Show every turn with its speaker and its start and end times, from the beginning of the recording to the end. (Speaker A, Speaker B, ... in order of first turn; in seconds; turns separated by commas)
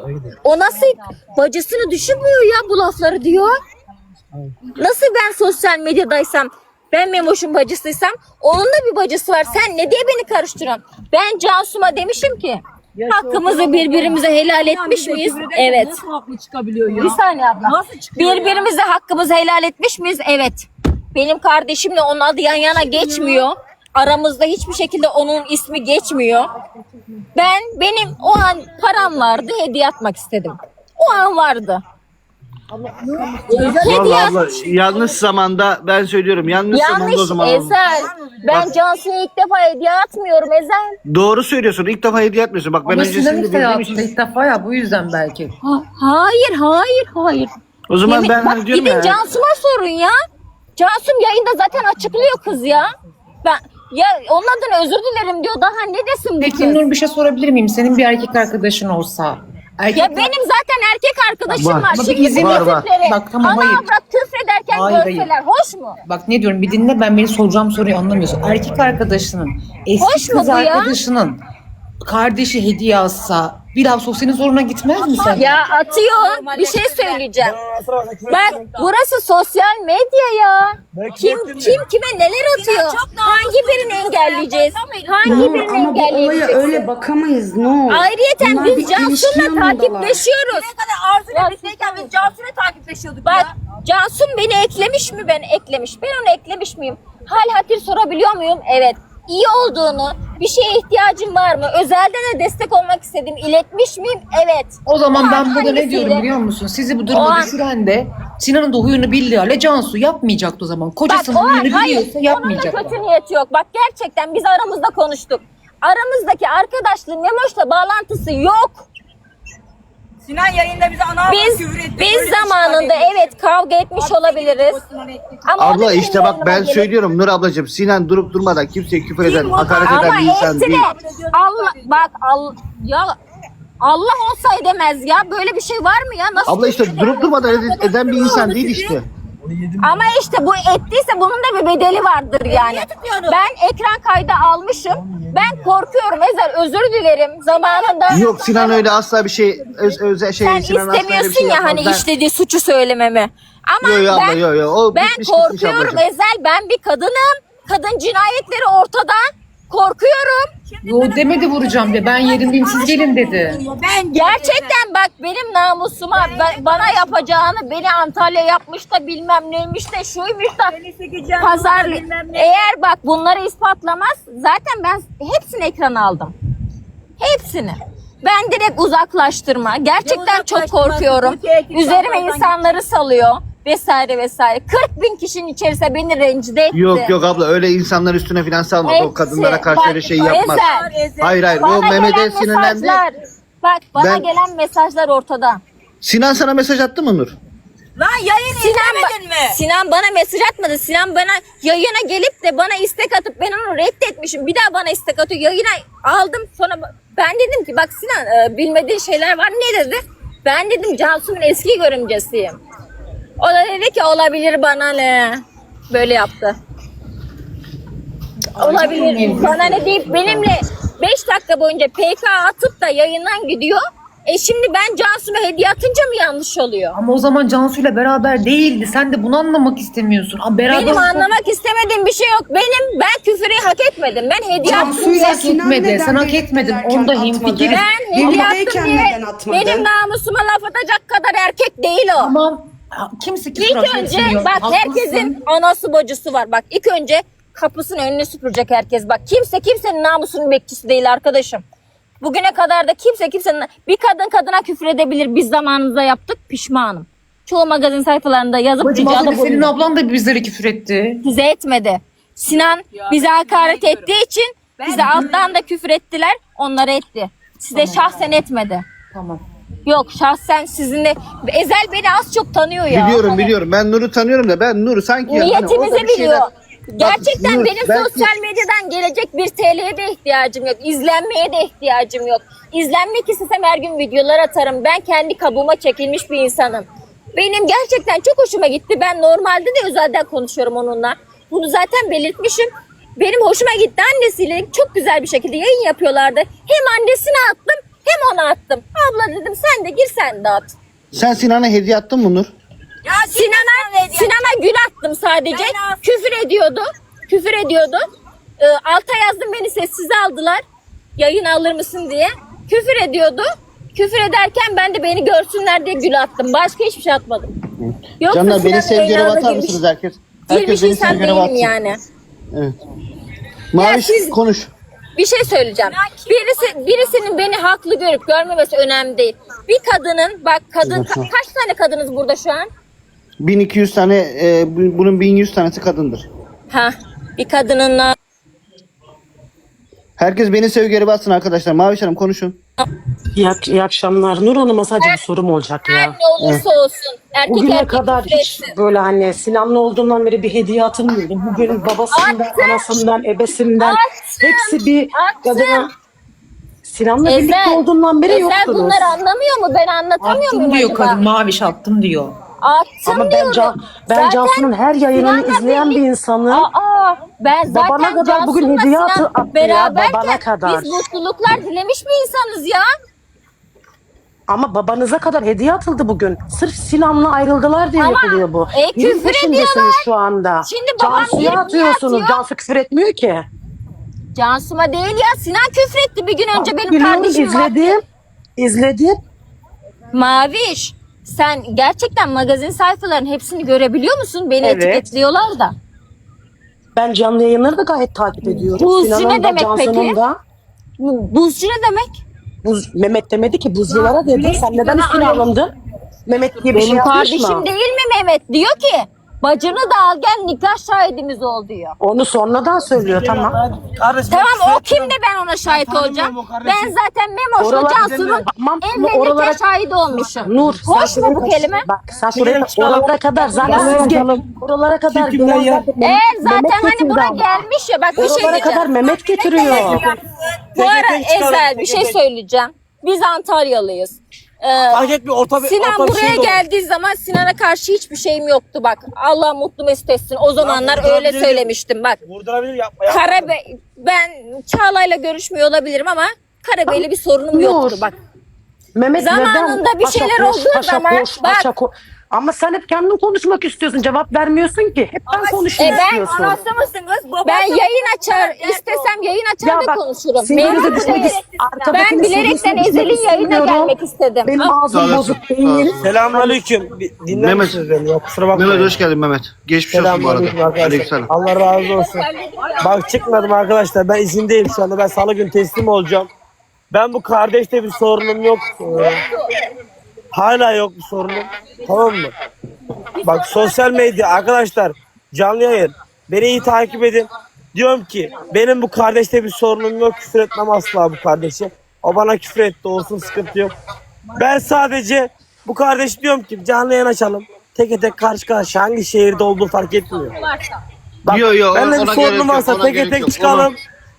Speaker A: 0.4-3.5, Speaker A: 4.8-16.0, Speaker B: 13.0-18.7, Speaker A: 16.9-26.5, Speaker B: 22.9-23.4, Speaker A: 27.4-31.8, Speaker C: 32.8-33.3, Speaker B: 33.2-34.0, Speaker A: 33.5-34.4, Speaker D: 33.8-37.8, Speaker A: 36.7-41.0, Speaker D: 41.1-44.1, Speaker C: 42.8-45.5, Speaker A: 45.6-47.5, Speaker D: 47.9-49.2, Speaker A: 48.0-50.1, Speaker A: 50.8-52.9, Speaker A: 53.4-56.8, Speaker C: 56.4-60.3, Speaker A: 59.9-66.0, Speaker D: 61.5-62.9, Speaker C: 61.9-63.8, Speaker C: 64.7-65.3, Speaker C: 66.1-71.4, Speaker A: 70.0-70.9, Speaker C: 72.0-75.5, Speaker B: 74.9-77.3, Speaker A: 75.3-77.6, Speaker E: 77.4-78.7, Speaker A: 78.3-86.9, Speaker E: 80.9-81.8, Speaker B: 82.5-85.4, Speaker F: 85.2-90.2, Speaker A: 87.9-90.7, Speaker B: 90.4-93.5, Speaker A: 91.3-92.2, Speaker A: 93.2-106.3, Speaker C: 104.9-112.9, Speaker A: 107.1-107.5, Speaker A: 111.1-118.9, Speaker B: 120.2-123.4, Speaker A: 121.3-124.8, Speaker B: 124.0-125.4, Speaker A: 125.5-126.9, Speaker D: 125.6-130.9, Speaker B: 129.2-132.1, Speaker A: 129.8-133.2, Speaker A: 133.8-138.9, Speaker D: 136.5-139.1, Speaker B: 138.3-138.8, Speaker A: 139.8-148.8, Speaker B: 142.4-143.4, Speaker B: 147.5-148.7, Speaker D: 148.1-152.1, Speaker A: 150.4-154.4, Speaker D: 153.8-156.0, Speaker A: 154.9-160.5, Speaker B: 160.7-164.8, Speaker C: 160.8-163.6, Speaker A: 164.1-170.8, Speaker B: 166.1-167.2, Speaker B: 170.7-172.7, Speaker A: 171.4-176.3, Speaker A: 177.2-187.1, Speaker B: 180.0-182.8, Speaker D: 186.7-190.7, Speaker A: 188.8-190.9, Speaker B: 189.6-192.1, Speaker D: 191.2-193.0, Speaker A: 191.5-195.6, Speaker D: 194.0-194.3, Speaker D: 196.0-197.3, Speaker B: 198.0-199.6, Speaker A: 198.5-212.6, Speaker A: 213.4-216.6, Speaker C: 218.5-220.5, Speaker A: 218.6-227.0, Speaker C: 227.0-231.3, Speaker A: 230.7-235.1, Speaker F: 234.6-239.9, Speaker C: 234.7-238.5, Speaker A: 237.7-242.3, Speaker C: 242.2-245.4, Speaker A: 243.6-251.6, Speaker A: 252.2-259.7, Speaker C: 258.8-261.2, Speaker A: 261.2-268.8, Speaker B: 263.0-264.1, Speaker C: 267.8-268.0, Speaker C: 269.1-269.4, Speaker A: 269.9-273.5, Speaker D: 272.9-276.5, Speaker A: 275.3-300.7, Speaker D: 277.0-278.3, Speaker D: 301.1-302.5, Speaker B: 303.1-304.6, Speaker A: 303.3-308.0, Speaker B: 305.5-306.0, Speaker A: 308.6-310.6, Speaker A: 311.2-317.5, Speaker D: 317.8-321.8, Speaker A: 318.2-319.8, Speaker A: 320.5-322.0, Speaker D: 323.7-324.7, Speaker A: 323.8-324.4, Speaker A: 325.2-332.7, Speaker B: 325.8-327.2, Speaker D: 330.8-331.3, Speaker D: 333.4-336.3, Speaker A: 336.7-338.1, Speaker D: 340.2-342.6, Speaker G: 343.4-346.2, Speaker A: 345.9-348.7, Speaker G: 347.5-355.9, Speaker A: 352.1-352.9, Speaker A: 353.8-355.9, Speaker G: 356.8-359.1, Speaker A: 357.2-361.2, Speaker C: 360.2-362.4, Speaker A: 362.6-372.9, Speaker G: 363.1-366.7, Speaker G: 367.7-371.0, Speaker G: 374.5-383.5, Speaker A: 378.0-380.0, Speaker A: 380.6-382.4, Speaker A: 384.4-388.0, Speaker G: 386.5-388.0, Speaker G: 388.6-389.2, Speaker A: 390.1-395.8, Speaker G: 394.6-395.0, Speaker G: 397.0-400.4, Speaker A: 398.6-400.2, Speaker A: 401.0-402.2, Speaker G: 402.6-405.7, Speaker B: 404.0-405.4, Speaker G: 406.3-407.7, Speaker A: 406.7-412.0, Speaker G: 412.0-413.6, Speaker E: 412.9-416.9, Speaker A: 414.3-421.8, Speaker G: 417.6-419.6, Speaker E: 418.0-418.3, Speaker G: 420.4-427.5, Speaker E: 422.3-424.4, Speaker A: 423.6-424.1, Speaker E: 425.1-425.9, Speaker A: 426.0-430.1, Speaker G: 428.1-430.1, Speaker B: 428.2-429.6, Speaker E: 429.7-430.2, Speaker E: 430.8-432.2, Speaker A: 430.8-442.2, Speaker E: 434.9-436.6, Speaker E: 440.6-441.7, Speaker E: 442.2-443.5, Speaker A: 443.1-448.2, Speaker G: 446.9-448.0, Speaker G: 448.9-456.6, Speaker A: 449.2-451.7, Speaker B: 455.3-459.1, Speaker A: 455.8-456.4, Speaker A: 457.4-464.8, Speaker G: 459.6-466.6, Speaker B: 460.6-462.5, Speaker D: 464.9-466.0, Speaker E: 466.0-469.0, Speaker D: 467.3-467.8, Speaker D: 468.5-471.3, Speaker E: 469.9-472.3, Speaker A: 471.6-473.6, Speaker E: 472.8-476.3, Speaker E: 476.9-479.2, Speaker A: 479.0-479.5, Speaker E: 480.3-482.3, Speaker A: 483.2-484.3, Speaker E: 483.2-493.7, Speaker E: 494.4-500.4, Speaker A: 500.2-500.8, Speaker D: 501.3-503.7, Speaker E: 501.3-503.8